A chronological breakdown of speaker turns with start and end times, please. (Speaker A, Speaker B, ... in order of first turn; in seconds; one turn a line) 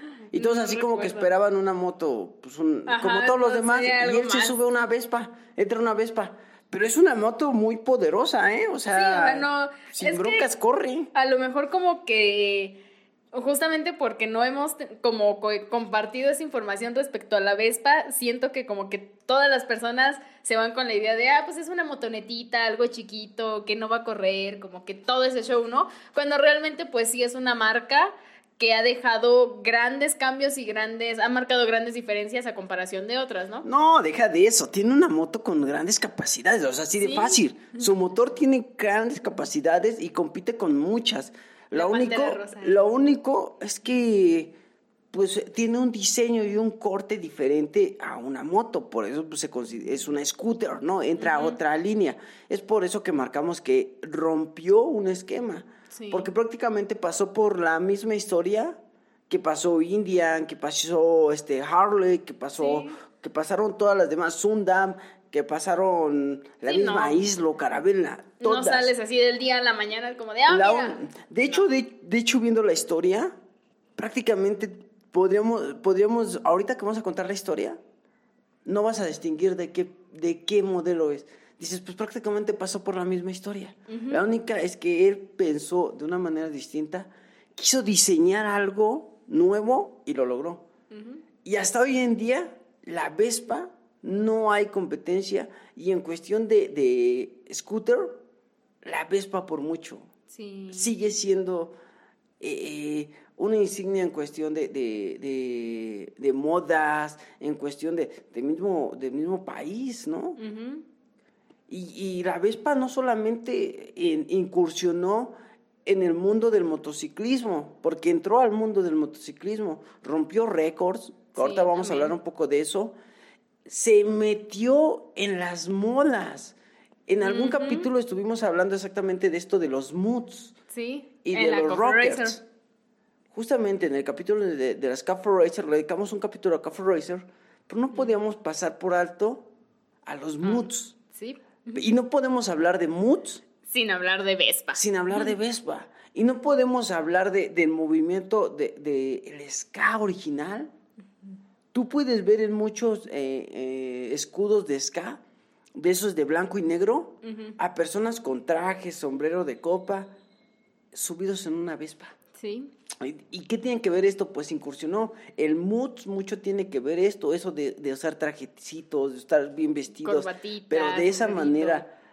Speaker A: 0.3-1.3
Speaker B: 0.3-11.1
Speaker A: 2.9-4.5
Speaker A: 8.9-10.5
Speaker A: 11.1-12.8
Speaker A: 13.3-33.7
Speaker B: 33.6-44.5
Speaker A: 37.0-37.8
Speaker A: 41.7-42.8
Speaker B: 45.1-68.9
Speaker A: 51.2-51.6
Speaker A: 55.9-56.3
Speaker A: 62.6-63.0
Speaker A: 66.7-67.2
Speaker A: 68.4-71.0
Speaker B: 70.5-73.4
Speaker B: 74.0-77.8
Speaker B: 78.7-90.7
Speaker A: 83.9-84.2
Speaker A: 90.9-91.2
Speaker B: 91.5-98.2
Speaker B: 98.8-100.1
Speaker A: 100.3-100.9
Speaker B: 100.7-101.8
Speaker B: 102.4-110.4
Speaker A: 110.4-110.8
Speaker B: 111.7-123.0
Speaker A: 121.4-122.1
Speaker B: 123.7-126.5
Speaker B: 127.1-130.6
Speaker A: 127.2-127.9
Speaker A: 130.7-132.4
Speaker B: 131.2-132.4
Speaker B: 133.3-139.5
Speaker B: 140.1-141.0
Speaker A: 140.4-141.8
Speaker B: 141.8-143.4
Speaker A: 143.7-145.3
Speaker B: 144.7-150.7
Speaker B: 151.7-155.2
Speaker B: 155.8-160.1
Speaker A: 157.2-157.6
Speaker B: 160.9-162.1
Speaker A: 162.4-162.7
Speaker B: 163.0-171.9
Speaker A: 170.0-171.8